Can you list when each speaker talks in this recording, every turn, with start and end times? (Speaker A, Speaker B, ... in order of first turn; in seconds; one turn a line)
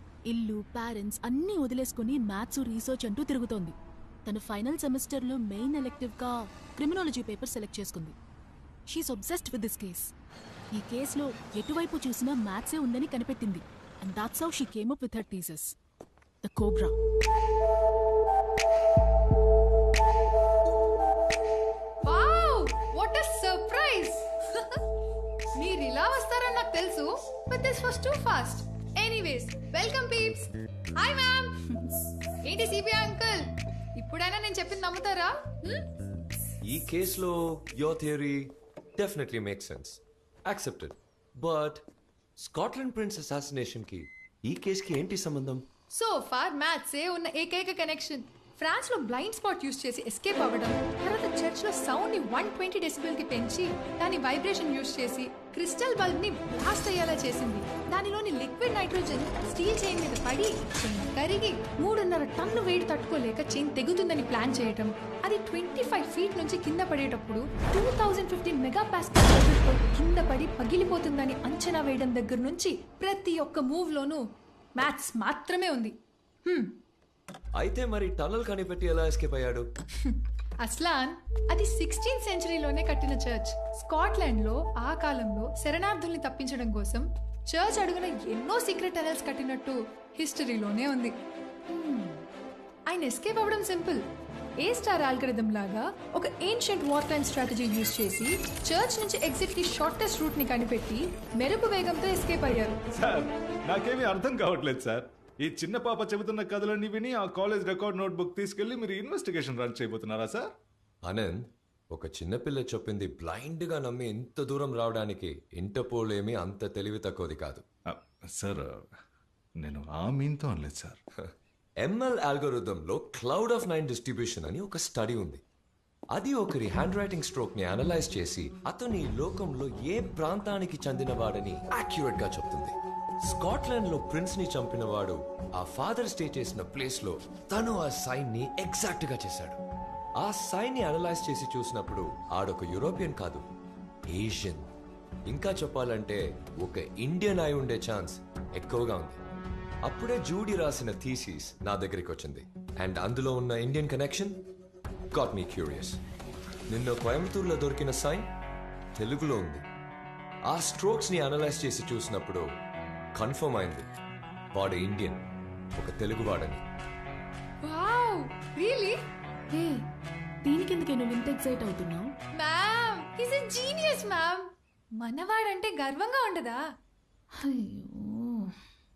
Speaker A: 0.3-3.8
Speaker A: 4.3-8.2
Speaker A: 8.9-10.1
Speaker A: 10.7-15.7
Speaker A: 16.4-16.9
Speaker B: 22.1-24.8
Speaker B: 25.6-31.6
Speaker B: 32.5-33.5
Speaker B: 34.0-35.3
Speaker C: 36.7-41.9
Speaker C: 42.4-45.7
Speaker B: 45.9-74.2
Speaker B: 74.8-75.9
Speaker C: 77.6-79.7
Speaker B: 80.0-91.1
Speaker B: 91.7-92.2
Speaker B: 92.9-94.0
Speaker B: 94.6-102.8
Speaker D: 102.9-110.5
Speaker C: 111.0-117.6
Speaker D: 117.9-118.9
Speaker D: 119.6-121.0
Speaker C: 121.8-125.4
Speaker C: 126.1-132.8
Speaker C: 133.3-139.6
Speaker C: 140.2-143.4
Speaker C: 144.1-144.7
Speaker C: 145.3-149.2
Speaker C: 149.8-154.4
Speaker C: 155.1-156.0
Speaker C: 156.7-158.3
Speaker C: 159.0-159.7
Speaker C: 160.5-162.5
Speaker C: 163.2-163.9
Speaker C: 164.5-165.2
Speaker C: 165.8-166.6
Speaker B: 167.6-169.0
Speaker A: 169.5-169.8
Speaker A: 170.4-172.1
Speaker B: 172.4-174.5
Speaker B: 175.0-176.6
Speaker A: 177.5-177.9